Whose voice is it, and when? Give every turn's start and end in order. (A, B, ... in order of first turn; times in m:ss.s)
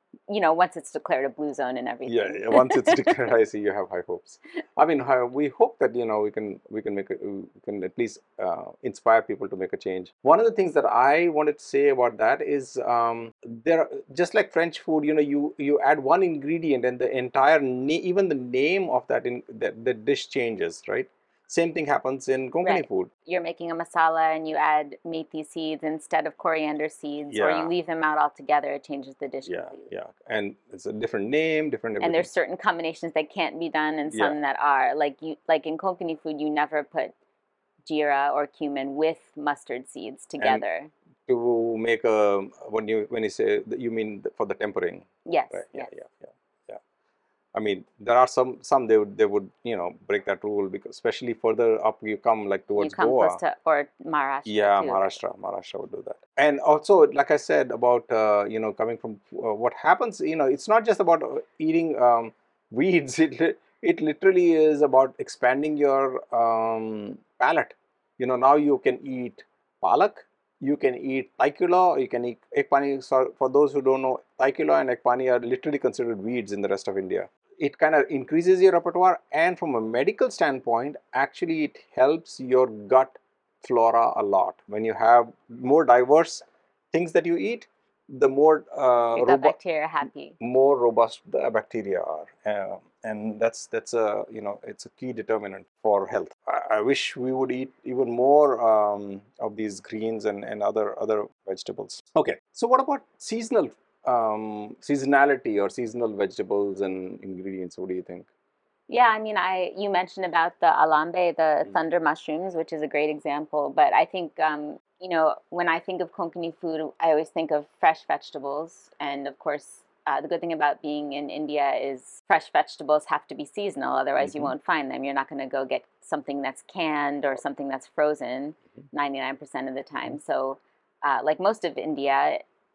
0:00.3-0:03.2 A
0:02.0-0:23.1 B
0:22.6-0:29.8 A
0:27.3-0:27.7 B
0:29.4-0:32.3 B
0:32.0-0:37.1 A
0:34.1-0:34.4 B
0:37.8-0:40.9 A
0:40.4-0:40.6 B
0:41.3-0:46.8 B
0:45.2-0:45.9 A
0:47.5-0:53.4 B
0:52.7-0:55.2 A
0:54.4-1:29.6 B
1:29.1-1:30.4 A
1:30.4-1:48.3 B
1:48.9-2:12.4 A
2:04.2-2:04.5 B